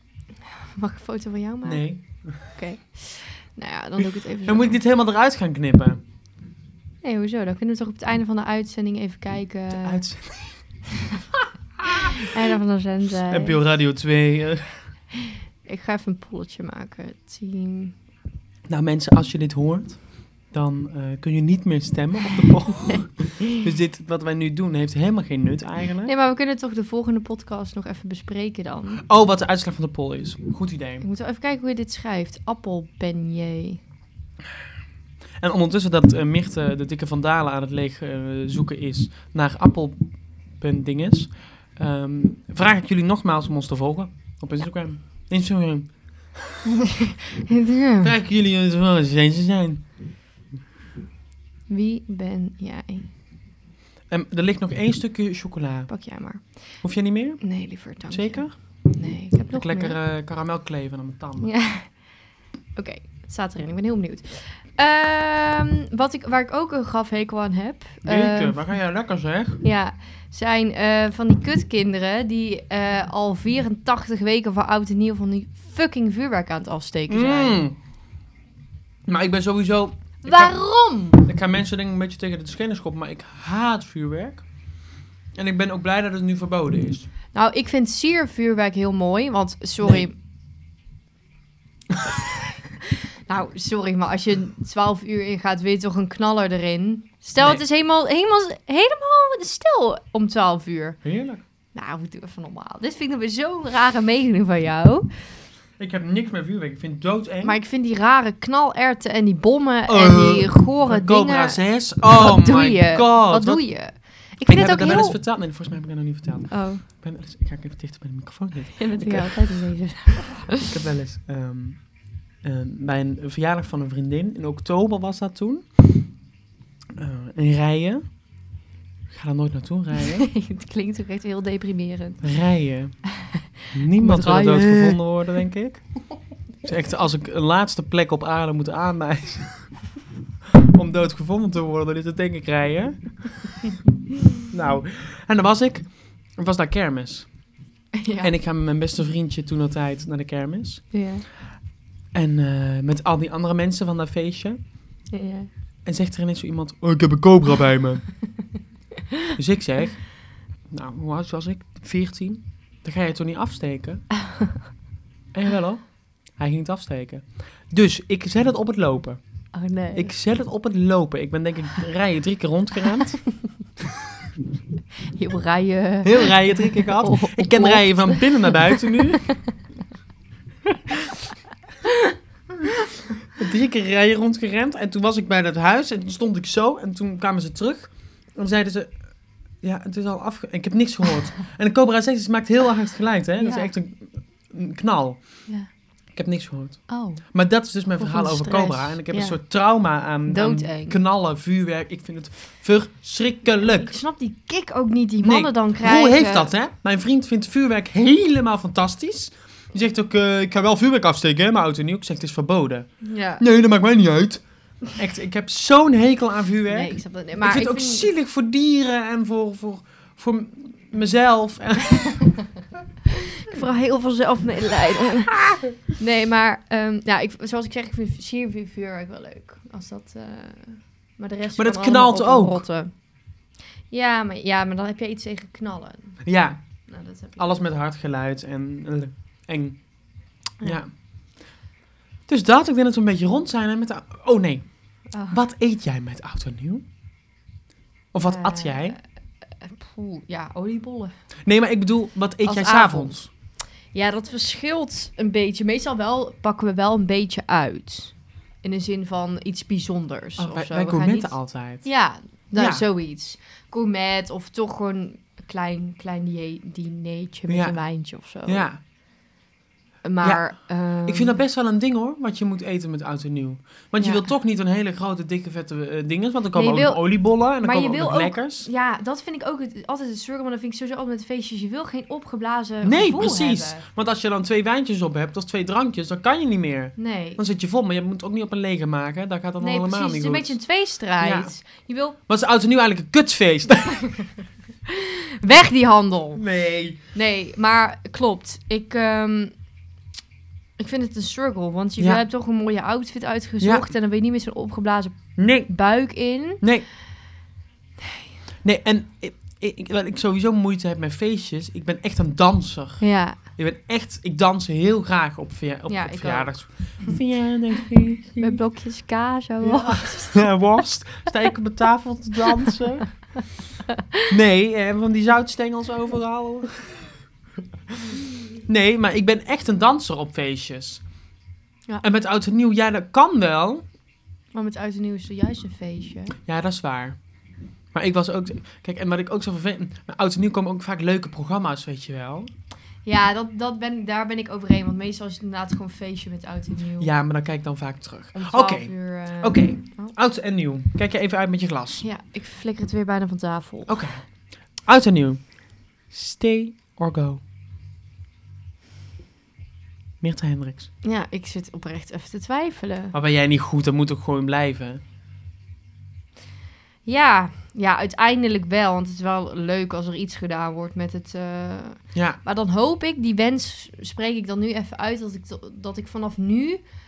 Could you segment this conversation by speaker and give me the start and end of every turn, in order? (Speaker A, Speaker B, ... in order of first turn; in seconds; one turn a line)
Speaker A: 0.8-4.8
Speaker B: 1.6-2.5
Speaker B: 4.5-6.0
Speaker A: 7.0-10.0
Speaker B: 9.7-10.7
Speaker A: 11.9-13.6
Speaker B: 13.3-14.9
Speaker A: 15.6-17.9
Speaker B: 18.7-26.1
Speaker A: 26.1-29.0
Speaker B: 29.1-31.1
Speaker A: 31.0-33.8
Speaker B: 35.4-46.4
Speaker A: 47.0-48.1
Speaker B: 48.0-49.9
Speaker A: 51.7-53.1
Speaker B: 54.1-56.0
Speaker A: 55.9-60.0
Speaker B: 56.8-61.6
Speaker A: 61.4-62.2
Speaker A: 62.8-68.7
Speaker B: 68.0-69.6
Speaker A: 69.6-77.6
Speaker B: 77.1-77.8
Speaker B: 79.1-84.5
Speaker A: 80.2-81.3
Speaker B: 85.3-87.1
Speaker A: 87.3-90.1
Speaker B: 89.8-90.1
Speaker A: 93.3-101.0
Speaker B: 97.4-97.6
Speaker B: 101.0-101.4
Speaker A: 101.7-105.2
Speaker B: 105.8-107.6
Speaker A: 107.4-115.2
Speaker B: 109.9-126.2
Speaker A: 116.5-116.8
Speaker A: 118.8-120.7
Speaker B: 127.0-128.2
Speaker B: 129.1-130.3
Speaker A: 130.2-132.3
Speaker B: 132.2-139.9
Speaker A: 133.2-135.1
Speaker B: 140.6-143.6
Speaker B: 144.5-147.4
Speaker A: 147.9-148.3
Speaker B: 148.2-151.0
Speaker A: 150.9-151.2
Speaker B: 152.1-154.6
Speaker A: 155.1-155.5
Speaker B: 155.8-158.4
Speaker B: 159.3-164.2
Speaker B: 165.3-173.6
Speaker A: 169.5-170.1
Speaker A: 175.1-179.4
Speaker B: 176.0-179.5
Speaker B: 183.4-189.0
Speaker B: 189.6-195.5
Speaker A: 193.4-193.7
Speaker B: 196.1-204.0
Speaker A: 196.9-197.3
Speaker A: 197.9-199.4
Speaker A: 200.3-201.0
Speaker A: 203.6-206.5
Speaker B: 205.2-222.4
Speaker A: 213.0-213.4
Speaker A: 216.7-218.1
Speaker A: 223.4-233.1
Speaker B: 231.6-232.6
Speaker A: 233.9-236.3
Speaker B: 236.2-239.9
Speaker A: 236.9-237.6
Speaker B: 240.6-240.9
Speaker B: 242.3-246.9
Speaker A: 245.1-245.4
Speaker B: 248.1-249.0
Speaker A: 248.2-249.0
Speaker A: 249.6-251.1
Speaker B: 251.4-253.3
Speaker A: 252.4-268.7
Speaker B: 260.4-261.9
Speaker B: 262.6-262.9
Speaker B: 267.5-267.8
Speaker B: 268.4-268.8
Speaker A: 270.0-271.4
Speaker B: 270.2-278.7
Speaker A: 274.0-274.3
Speaker A: 276.5-283.9
Speaker B: 282.8-290.6
Speaker A: 287.0-287.4
Speaker A: 289.6-292.2
Speaker B: 291.2-291.6
Speaker B: 292.3-294.1
Speaker A: 294.9-299.5
Speaker B: 296.4-297.0
Speaker A: 300.8-306.6
Speaker B: 302.0-302.2
Speaker B: 303.6-303.9
Speaker B: 305.4-305.7
Speaker B: 306.6-306.9
Speaker B: 308.6-318.6
Speaker A: 313.0-313.4
Speaker A: 315.9-317.1
Speaker A: 318.4-320.6
Speaker B: 319.6-323.4
Speaker B: 324.3-327.2
Speaker B: 328.6-331.0
Speaker B: 332.0-333.9
Speaker A: 334.5-336.4
Speaker B: 336.5-337.2
Speaker B: 337.9-342.5
Speaker A: 343.1-347.1
Speaker B: 347.0-352.0
Speaker A: 348.3-350.1
Speaker A: 352.0-354.1
Speaker B: 353.9-357.4
Speaker B: 360.2-360.9
Speaker A: 361.0-363.1
Speaker B: 363.1-365.0
Speaker A: 367.1-376.8
Speaker B: 372.1-372.4